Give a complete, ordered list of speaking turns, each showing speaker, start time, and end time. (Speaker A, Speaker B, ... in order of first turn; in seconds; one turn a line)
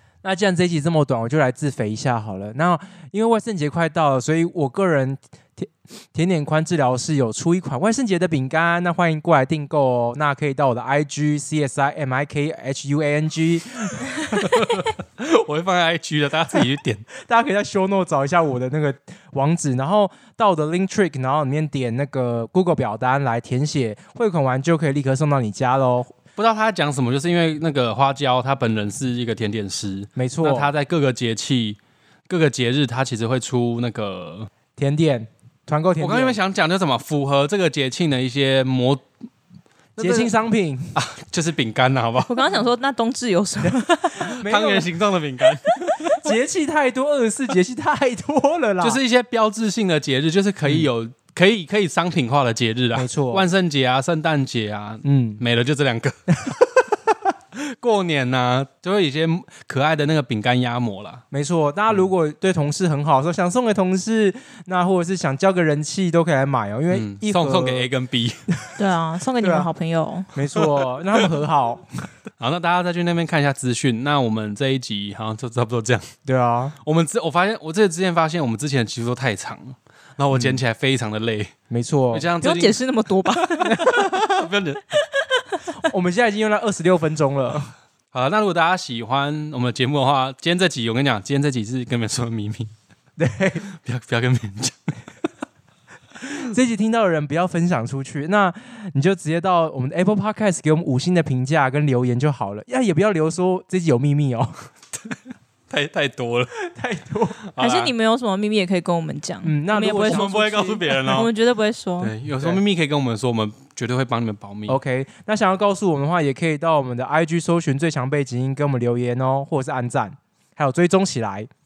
Speaker A: 0.2-14.6
Speaker B: 14.4-17.1
Speaker A: 17.2-26.1
Speaker B: 26.4-34.5
Speaker A: 30.1-30.7
Speaker A: 34.8-36.4
Speaker B: 36.0-39.0
Speaker B: 40.0-40.3
Speaker A: 40.0-40.9
Speaker B: 40.9-42.4
Speaker C: 42.3-44.3
Speaker A: 44.3-44.9
Speaker B: 44.4-46.3
Speaker A: 45.9-49.0
Speaker B: 48.8-56.6
Speaker A: 53.0-53.5
Speaker A: 55.0-55.4
Speaker B: 57.5-61.2
Speaker A: 61.3-67.8
Speaker B: 66.9-68.4
Speaker C: 68.8-70.3
Speaker A: 69.4-69.7
Speaker A: 70.3-72.1
Speaker B: 72.4-76.1
Speaker A: 76.2-76.8
Speaker B: 76.8-81.5
Speaker A: 80.3-80.6
Speaker A: 81.7-82.3
Speaker B: 82.1-85.0
Speaker C: 82.4-83.8
Speaker A: 83.7-84.4
Speaker C: 85.2-85.7
Speaker A: 85.9-87.7
Speaker B: 88.1-92.7
Speaker A: 93.2-93.7
Speaker B: 93.7-95.0
Speaker A: 96.3-104.6
Speaker B: 105.7-106.5
Speaker A: 106.6-107.4
Speaker B: 107.5-107.9
Speaker C: 107.6-110.3
Speaker A: 109.4-111.3
Speaker B: 110.0-111.3
Speaker C: 111.1-112.1
Speaker B: 112.0-114.8
Speaker A: 114.7-121.5